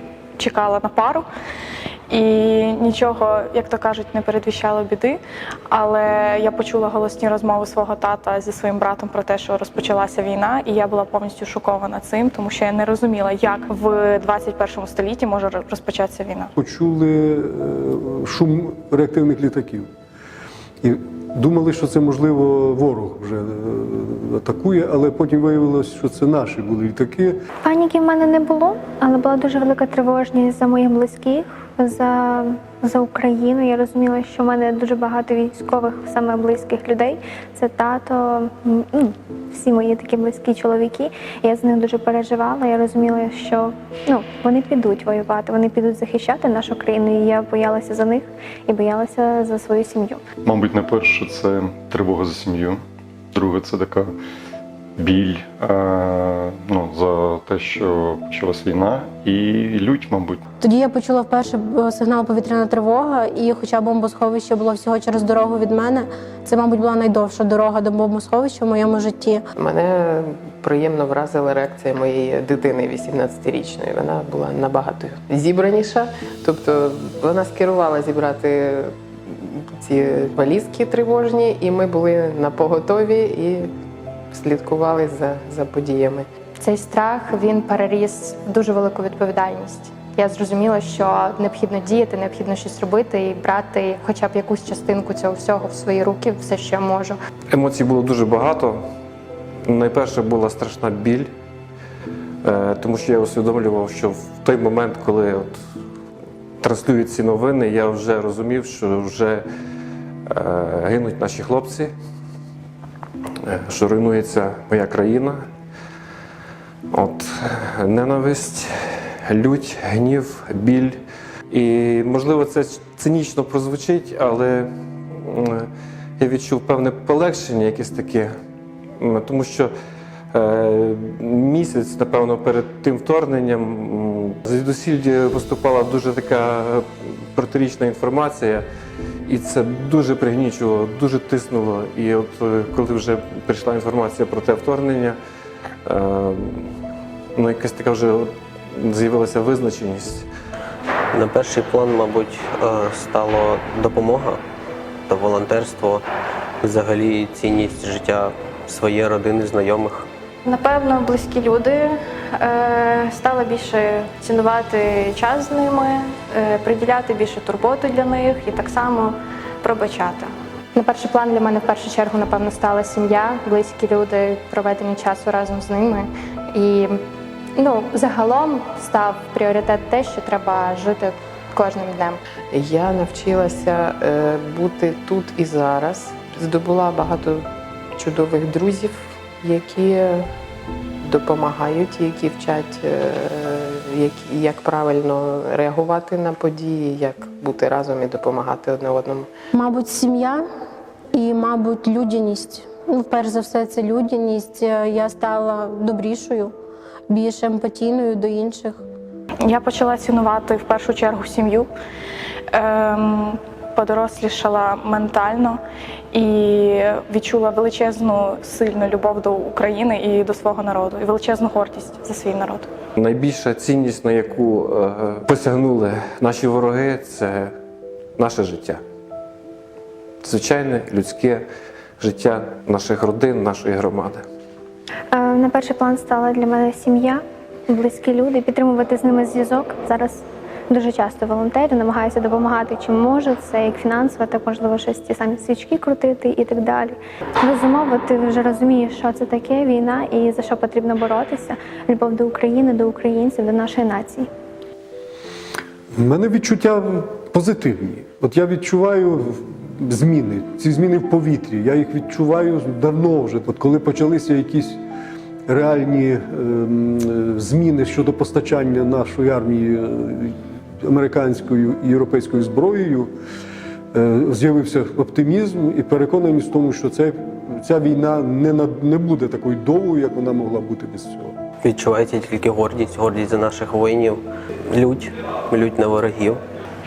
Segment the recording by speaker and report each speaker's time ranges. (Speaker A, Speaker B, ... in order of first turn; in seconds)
Speaker A: 0.4-1.2, 2.1-5.2, 5.7-16.5, 160.4-170.3, 209.4-211.7, 212.5-215.6, 216.1-222.7
Speaker B: 16.6-19.9, 20.8-27.4, 255.9-264.8, 265.5-273.1, 273.9-281.3
Speaker C: 27.6-50.2, 235.1-254.3
Speaker D: 50.4-52.8, 53.3-54.1, 55.0-60.4
Speaker E: 60.6-69.4, 199.5-200.4, 201.1-206.5, 207.1-208.8
Speaker F: 69.5-83.7, 84.3-86.2, 182.5-190.2, 191.0-199.3
Speaker G: 86.6-97.1, 170.7-176.9, 177.6-182.2
Speaker H: 97.5-98.8, 99.7-101.3, 102.4-105.6, 106.6-109.4, 110.3-111.9, 113.4-115.4, 116.9-121.0, 121.5-128.3, 129.0-129.7, 130.3-138.6, 139.2-145.2, 145.8-146.7, 147.3-150.3, 222.9-227.5, 228.2-228.8, 230.2-231.4, 232.0-234.2
Speaker I: 151.1-154.4, 155.1-156.0, 156.6-160.1, 281.6-286.4